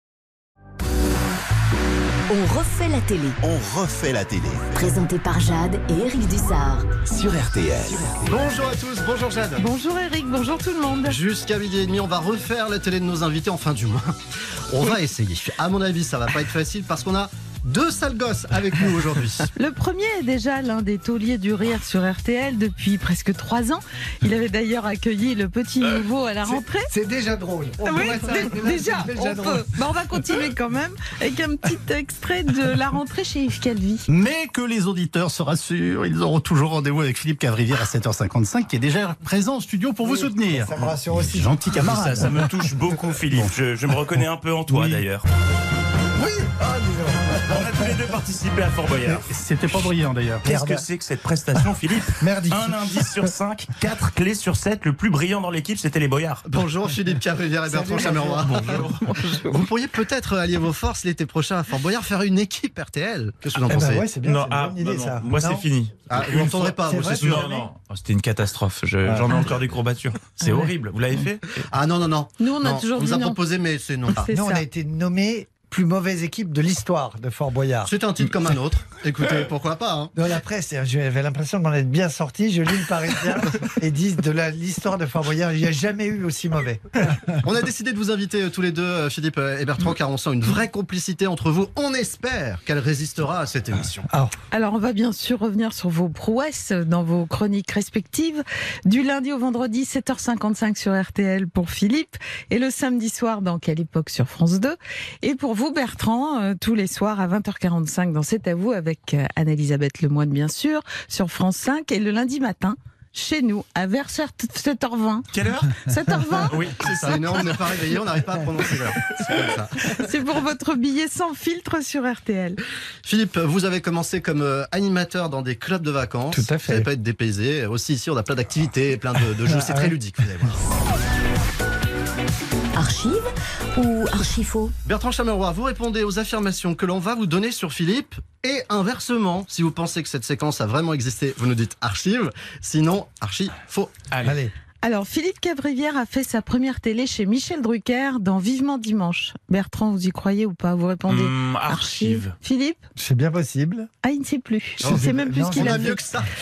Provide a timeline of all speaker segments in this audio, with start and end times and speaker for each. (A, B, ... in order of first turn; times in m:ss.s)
0:02.3-0:03.4 A
0:03.4-0:05.0 B
0:04.7-0:06.9 A
0:07.0-0:08.4 B
0:08.2-0:09.7 C
0:09.6-0:11.2 D
0:11.0-0:14.2 C
0:14.7-0:19.5 C
0:19.5-0:26.9 D
0:26.4-0:29.7 E
0:27.8-0:34.1 D
0:34.1-0:34.6 C
0:35.1-0:39.1 C
0:39.8-0:40.6 C
0:40.0-0:41.7 E
0:41.7-0:45.2 F
0:46.1-0:48.0 E
0:47.4-0:49.3 F
0:50.4-0:56.4 F
0:50.4-0:50.8 E
0:52.2-0:53.3 E
0:56.5-1:04.1 C
0:57.7-0:58.8 E
0:58.4-0:59.0 F
1:03.6-1:07.7 E
1:04.2-1:11.7 F
1:06.1-1:07.4 C
1:09.0-1:09.5 E
1:10.4-1:10.7 D
1:11.7-1:14.3 C
1:12.4-1:13.4 D
1:14.2-1:14.6 D
1:14.3-1:17.9 E
1:17.8-1:20.1 C
1:20.1-1:27.3 E
1:27.4-1:34.1 C
1:34.1-1:34.3 E
1:34.5-1:55.3 D
1:55.3-1:55.8 F
1:55.8-1:56.5 D
1:56.4-1:57.6 F
1:56.7-2:00.0 C
1:59.9-2:02.6 D
2:03.0-2:10.6 C
2:06.3-2:06.9 E
2:09.4-2:10.0 E
2:12.7-2:14.7 A
2:14.8-2:24.0 C
2:24.1-2:24.4 F
2:24.2-2:24.5 E
2:24.8-2:32.8 D
2:31.1-2:32.3 F
2:33.0-2:33.9 E
2:34.0-2:36.0 D
2:34.8-2:36.0 E
2:34.8-2:36.3 C